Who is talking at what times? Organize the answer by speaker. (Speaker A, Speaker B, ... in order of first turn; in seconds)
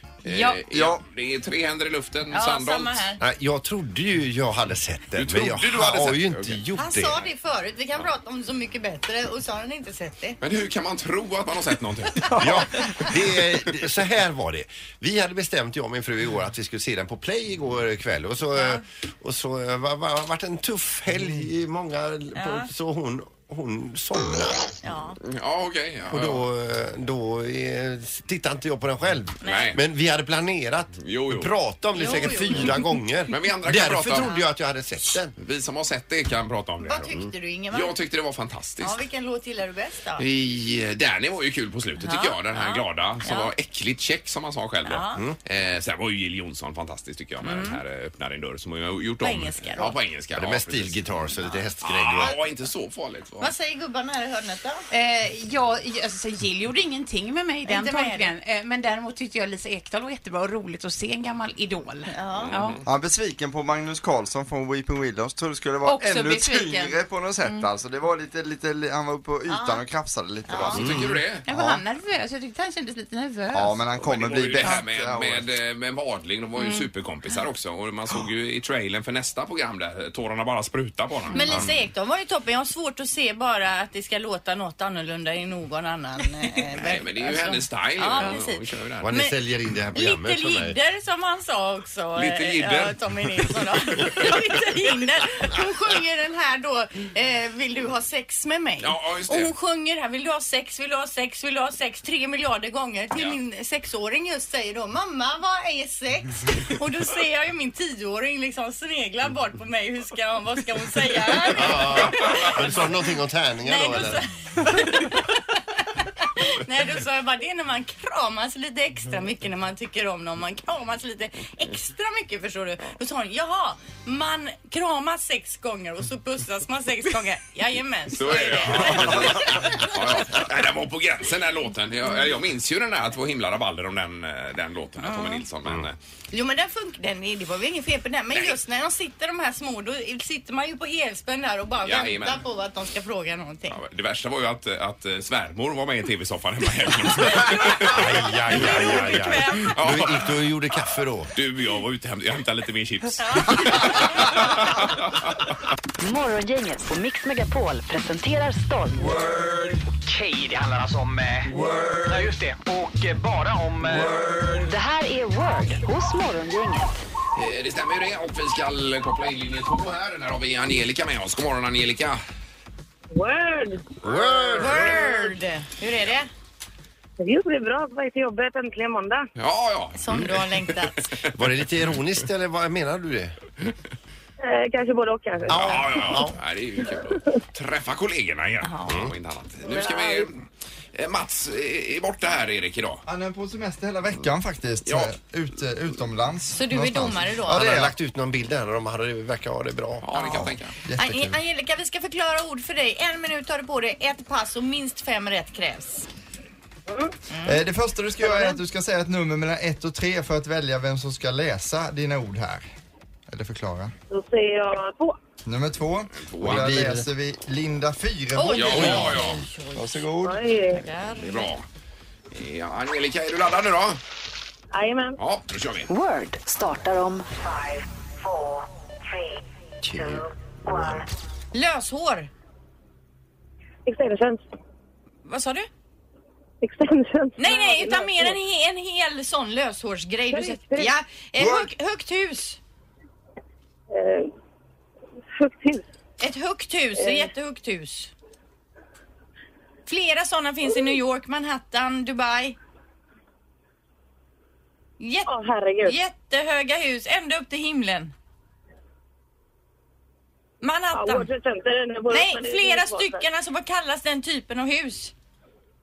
Speaker A: 0.2-3.0, 5.1-6.6, 10.4-13.1, 25.2-26.4, 29.4-29.8, 31.0-31.5, 33.3-34.3, 35.4-37.2, 37.7-39.0, 40.2-51.0, 51.8-53.5, 62.3-62.8, 70.6-71.4, 74.0-81.4, 86.7-89.1, 92.2-94.4, 98.8-99.5, 128.1-136.0, 138.3-138.6, 141.8-142.4, 143.7-150.3, 151.3-155.5, 167.3-172.2, 179.3-181.3, 185.5-193.0, 194.8-195.1, 200.0-200.8, 216.1-216.7, 218.5-219.4, 221.2-221.6, 222.3-224.0, 225.2-225.9
Speaker B: 0.2-0.6, 54.9-62.8, 65.8-67.6, 71.4-73.8, 76.6-76.8, 81.3-81.6
Speaker C: 0.7-1.0, 62.9-71.8, 73.5-75.4, 193.1-197.9, 200.8-201.4, 207.4-212.7, 213.3-213.9, 215.4-220.4, 241.4-241.7
Speaker D: 2.3-3.2, 6.8-10.4, 18.6-18.8, 22.3-22.7, 24.8-25.2, 29.4-29.7, 31.9-32.9, 34.1-34.5, 36.8-38.0, 38.8-40.2, 42.0-43.5, 44.8-45.2, 47.4-47.8, 49.2-50.0, 53.4-54.9, 57.6-58.3, 62.1-62.6, 69.5-69.8, 70.5-70.8, 81.3-89.3, 89.9-112.9, 113.6-115.6, 116.2-129.9, 135.0-135.4, 136.3-143.8, 148.5-149.8, 153.2-154.2, 174.5-176.3, 179.9-181.1, 188.6-189.0, 196.5-197.7, 201.0-206.1, 207.3-207.6, 208.2-208.6, 218.3-220.1, 220.7-221.5, 231.5-232.3, 235.2-235.7, 237.4-242.6, 246.2-248.1, 249.9-252.6, 255.0-255.3, 255.8-258.1, 260.6-261.3, 262.1-265.1
Speaker E: 3.2-7.2, 12.4-24.7, 26.1-35.3, 50.3-52.4, 89.0-90.8, 111.5-114.2, 147.8-151.3, 174.0-175.1, 181.3-183.3, 185.5-186.3, 188.8-189.1, 197.5-200.5, 216.4-217.1, 229.8-231.0
Speaker F: 156.0-159.1, 164.6-167.0, 225.9-227.3
Speaker G: 159.2-164.7
Speaker H: 173.1-173.9, 177.2-179.3, 184.4-186.1, 189.6-190.3, 214.1-215.2, 220.2-220.8, 224.7-225.2, 233.8-234.4, 236.6-238.4, 240.3-240.9, 243.9-244.3, 245.3-245.8, 247.0-247.3, 255.2-256.0, 260.9-263.2